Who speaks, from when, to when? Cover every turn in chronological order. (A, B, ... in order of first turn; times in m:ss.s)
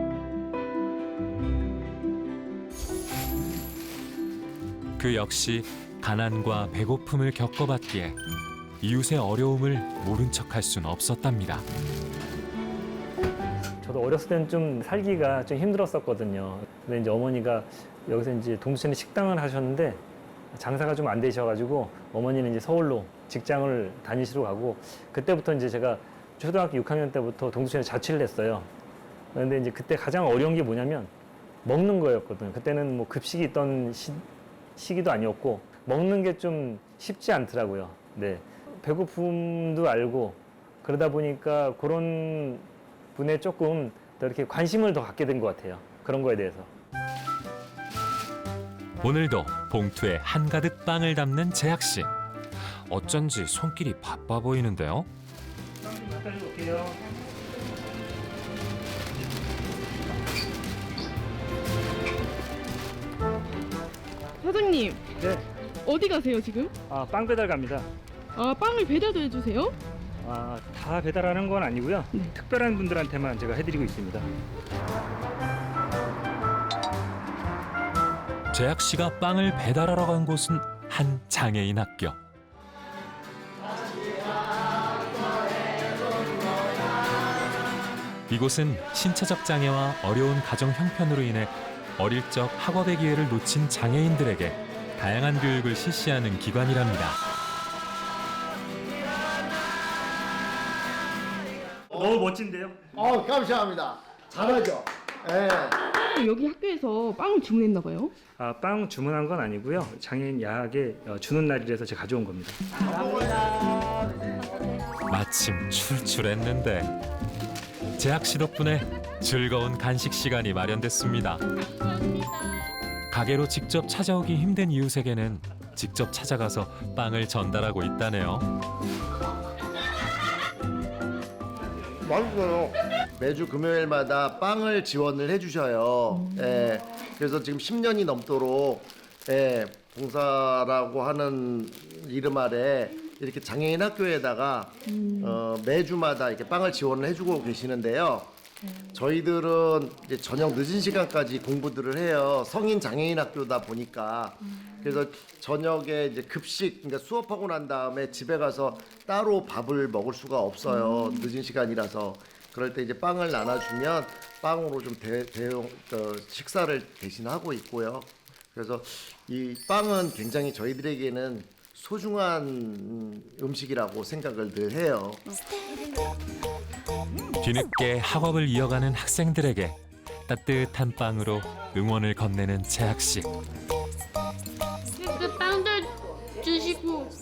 0:05.0-0:08.2 A
0:08.8-0:11.6 A
0:13.8-0:20.0 B
0:20.5-0:28.7 B
0:29.3-0:31.1 B
0:31.6-0:34.2 B
0:34.8-0:46.7 B
0:49.0-0:52.1 A
0:52.9-0:55.1 A
0:55.8-0:57.0 B
1:04.4-1:05.0 C
1:05.2-1:05.4 B
1:05.8-1:06.7 C
1:06.9-1:07.9 B
1:08.4-1:09.8 C
1:10.2-1:14.3 B
1:18.5-1:22.2 A
1:28.3-1:37.2 A
1:41.9-1:42.9 B
1:43.0-1:45.8 D
1:46.1-1:48.1 C
1:48.4-1:52.6 B
1:52.9-1:53.5 D
1:55.1-1:56.9 A
1:58.0-2:01.4 A
2:03.1-2:08.5 A
2:12.0-2:28.3 D
2:28.9-2:55.3 D
2:57.4-3:03.3 A
3:05.0-3:07.1 E